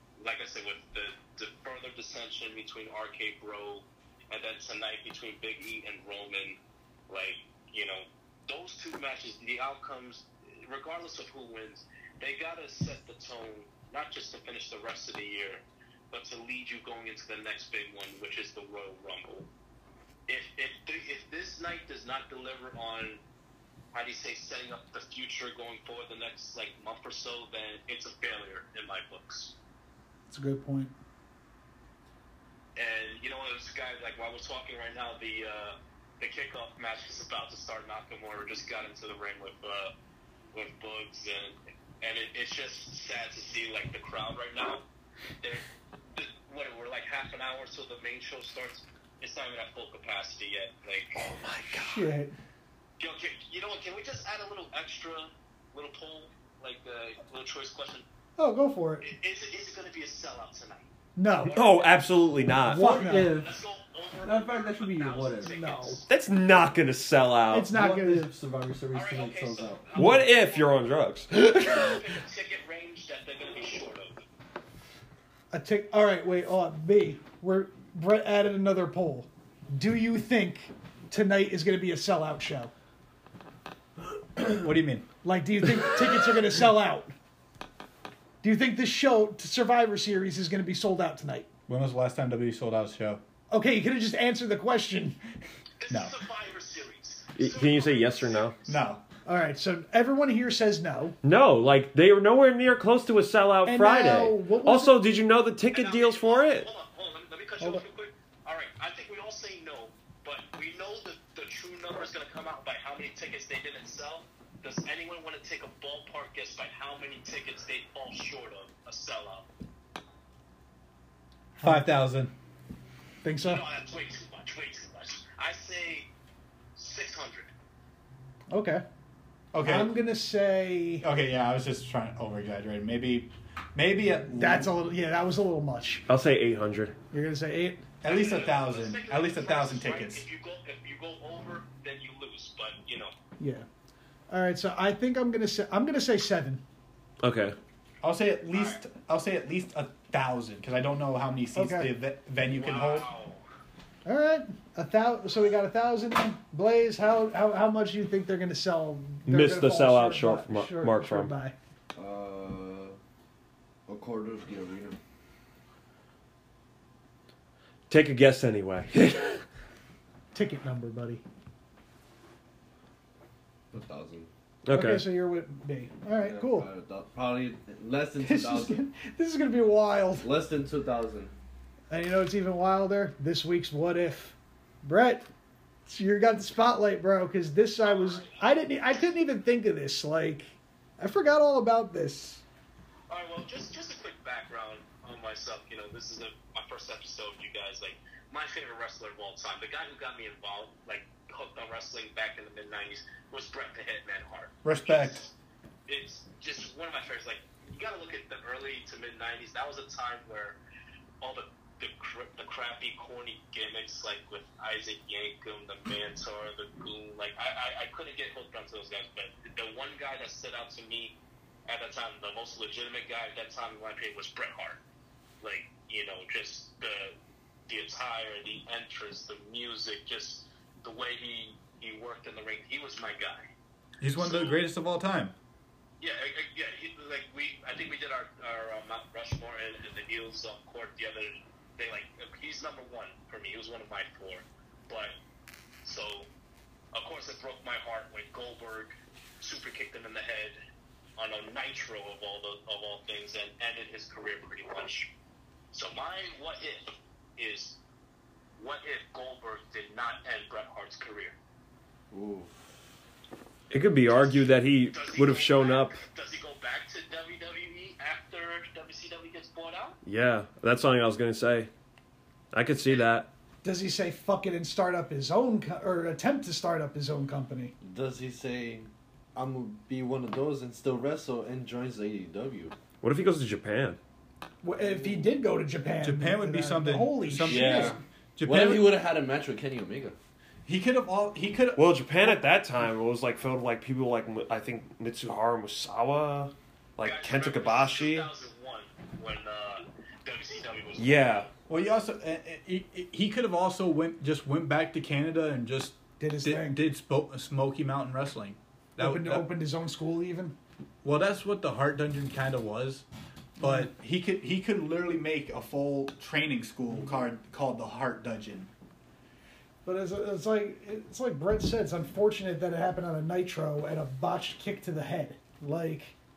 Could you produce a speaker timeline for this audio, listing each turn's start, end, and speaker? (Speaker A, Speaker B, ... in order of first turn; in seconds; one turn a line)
Speaker A: 0.2-19.5
Speaker A: 20.3-23.2
Speaker A: 23.9-29.6
Speaker B: 30.3-30.9
Speaker A: 32.8-39.9
Speaker A: 40.5-44.8
Speaker A: 45.4-51.2
Speaker C: 51.1-52.1
Speaker B: 51.7-52.3
Speaker A: 53.0-58.0
Speaker B: 58.4-59.0
Speaker A: 59.0-60.9
Speaker B: 61.1-61.6
Speaker A: 61.4-62.0
Speaker C: 61.5-63.0
Speaker B: 62.6-63.4
Speaker D: 62.7-63.6
Speaker A: 63.1-66.1
Speaker D: 64.2-65.5
Speaker B: 65.4-66.0
Speaker C: 66.1-67.7
Speaker B: 67.5-68.3
Speaker D: 67.7-70.0
Speaker A: 68.9-74.2
Speaker C: 70.0-71.3
Speaker B: 75.5-82.7
Speaker E: 84.3-85.0
Speaker B: 85.2-87.1
Speaker B: 88.4-91.5
Speaker E: 91.7-93.2
Speaker B: 93.5-95.2
Speaker A: 95.8-98.8
Speaker E: 95.9-96.2
Speaker C: 97.3-98.5
Speaker E: 98.7-99.0
Speaker B: 99.2-101.2
Speaker C: 101.2-106.7
Speaker B: 103.7-105.0
Speaker A: 105.7-119.5
Speaker B: 121.6-121.8
Speaker E: 121.6-122.3
Speaker B: 123.2-123.6
Speaker A: 123.4-126.1
Speaker A: 126.8-127.5
Speaker B: 128.5-128.8
Speaker E: 129.5-129.9
Speaker B: 129.6-131.1
Speaker E: 131.0-134.7
Speaker B: 134.3-136.0
Speaker C: 136.1-136.9
Speaker B: 137.1-137.8
Speaker E: 138.0-140.2
Speaker A: 138.1-143.1
Speaker B: 143.4-143.7
Speaker B: 144.3-146.6
Speaker C: 147.2-147.6
Speaker E: 148.0-153.1
Speaker A: 148.5-148.8
Speaker B: 151.5-151.9
Speaker A: 152.4-153.4
Speaker B: 154.0-161.5
Speaker C: 159.3-161.3
Speaker D: 161.9-162.9
Speaker D: 163.9-165.0
Speaker C: 167.9-169.4
Speaker B: 170.3-171.2
Speaker D: 173.7-174.3
Speaker C: 174.6-175.1
Speaker B: 174.7-176.7
Speaker D: 176.2-178.8
Speaker B: 178.2-180.3
Speaker D: 180.2-181.3
Speaker B: 181.9-185.3
Speaker B: 185.8-192.4
Speaker A: 187.8-188.4
Speaker A: 193.1-205.3
Speaker E: 204.6-205.2
Speaker A: 205.9-210.6
Speaker A: 211.2-224.8
Speaker A: 225.4-227.2
Speaker A: 227.7-233.5
Speaker E: 234.0-235.3
Speaker A: 234.2-234.6
Speaker A: 236.0-245.1
Speaker A: 245.8-246.3
Speaker A: 246.9-250.6
Speaker A: 251.2-255.1
Speaker A: 255.7-257.8
Speaker A: 258.6-261.3
Speaker D: 262.1-262.5
Speaker C: 263.7-266.0
Speaker A: 264.1-270.0
Speaker C: 270.0-271.7
Speaker C: 272.5-273.3
Speaker B: 273.6-277.7
Speaker D: 277.8-282.7
Speaker C: 283.0-284.0
Speaker B: 284.6-288.0
Speaker D: 284.8-285.2
Speaker E: 286.0-288.9
Speaker D: 287.4-290.1
Speaker E: 290.6-292.5
Speaker C: 291.8-298.3
Speaker A: 297.0-301.5
Speaker C: 301.0-301.5
Speaker E: 301.7-309.5
Speaker B: 306.2-306.8
Speaker B: 309.0-310.6
Speaker E: 311.0-313.1
Speaker E: 313.6-318.7
Speaker B: 319.8-326.1